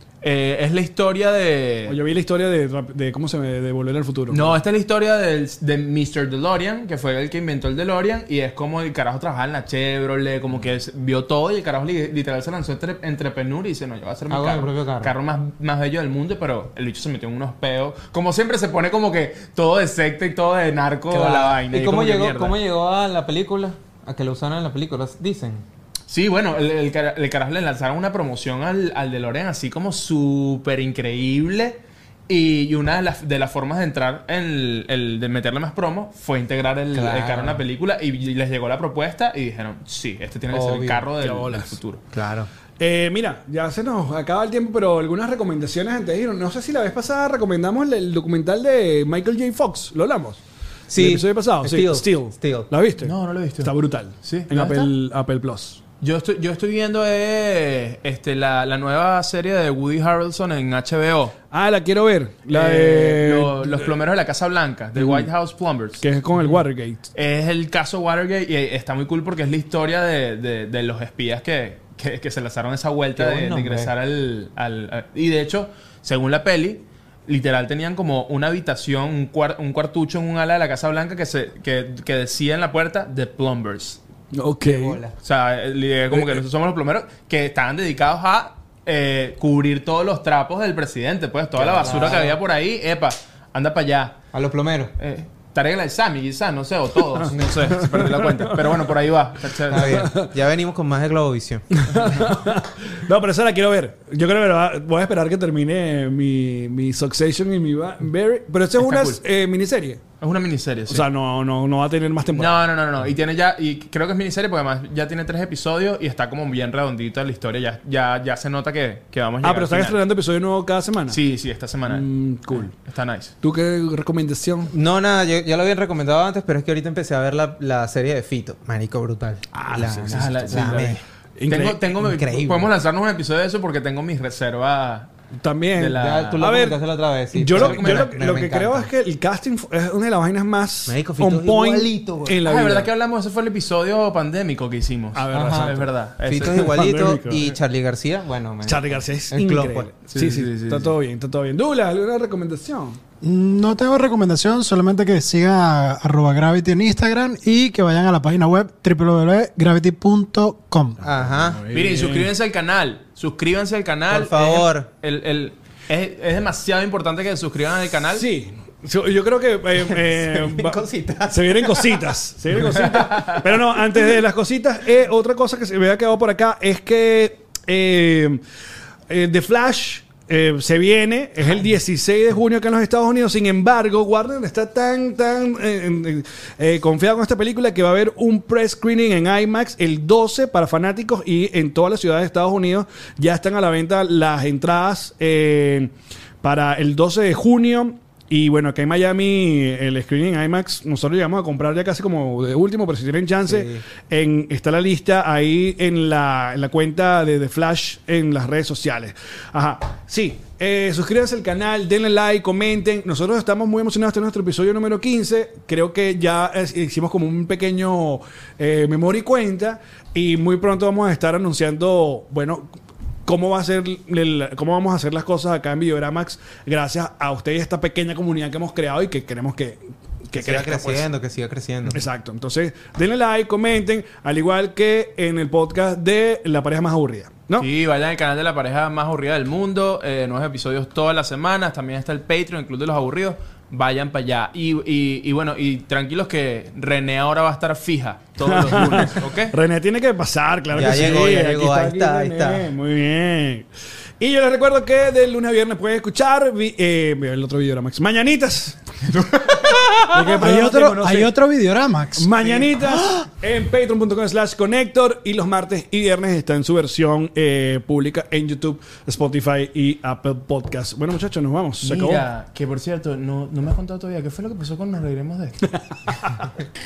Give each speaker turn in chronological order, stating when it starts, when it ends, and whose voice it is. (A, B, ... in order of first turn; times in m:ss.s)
0:00.2-0:02.0 A
0:01.8-0:04.6 B
0:04.3-0:22.6 A
0:14.3-0:15.1 C
0:21.1-0:25.6 C
0:26.1-0:42.0 A
0:36.9-0:37.6 C
0:40.5-0:41.0 C
0:41.2-0:41.8 B
0:42.1-0:42.5 C
0:42.8-0:50.4 B
0:50.9-0:52.7 C
0:50.9-0:55.8 B
0:53.0-0:54.9 A
0:56.0-1:01.3 A
1:01.5-1:03.9 B
1:02.5-1:06.0 A
1:05.0-1:05.3 B
1:06.0-1:07.0 B
1:07.1-1:24.0 A
1:13.2-1:13.9 C
1:24.3-1:25.0 B
1:24.6-1:25.2 C
1:25.2-1:34.2 A
1:26.1-1:26.4 B
1:31.6-1:32.4 C
1:31.8-1:32.1 B
1:34.3-1:34.9 C
1:35.0-1:40.1 A
1:37.2-1:38.9 B
1:37.3-1:37.6 C
1:39.7-1:42.1 C
1:39.7-1:40.3 B
1:41.8-1:50.0 B
1:48.8-1:49.2 A
1:50.2-1:51.0 A
1:50.9-1:52.6 B
1:52.3-2:00.0 A
1:59.4-2:01.2 B
2:01.1-2:03.3 A
2:01.9-2:02.7 B
2:03.4-2:04.7 B
2:04.7-2:11.0 C
2:09.5-2:11.8 B
2:10.1-2:15.1 A
2:11.9-2:12.7 C
2:15.4-2:22.9 B
2:15.8-2:16.5 A
2:16.0-2:18.9 C
2:17.5-2:18.1 A
2:20.9-2:22.4 C
2:22.4-2:26.7 A
2:25.1-2:27.5 B
2:25.3-2:29.9 C
2:28.6-2:33.0 B
2:30.1-2:31.0 A
2:33.2-2:41.0 D
2:41.0-2:41.6 C
2:41.3-2:42.3 B
2:41.7-2:48.2 A
2:44.1-2:44.9 C
2:48.1-2:50.8 B
2:49.8-2:52.0 C
2:51.3-2:58.4 B
2:52.8-2:53.4 A
2:59.1-3:51.1 B
3:23.4-3:23.8 C
3:50.3-3:52.0 C
3:51.9-3:57.7 B
3:57.6-4:09.5 A
4:08.4-4:13.6 B
4:10.7-4:12.7 C
4:14.2-4:18.8 B
4:20.1-4:21.3 B
4:20.2-4:22.3 D
4:22.2-4:32.2 B
4:31.8-4:35.7 A
4:35.7-4:36.4 B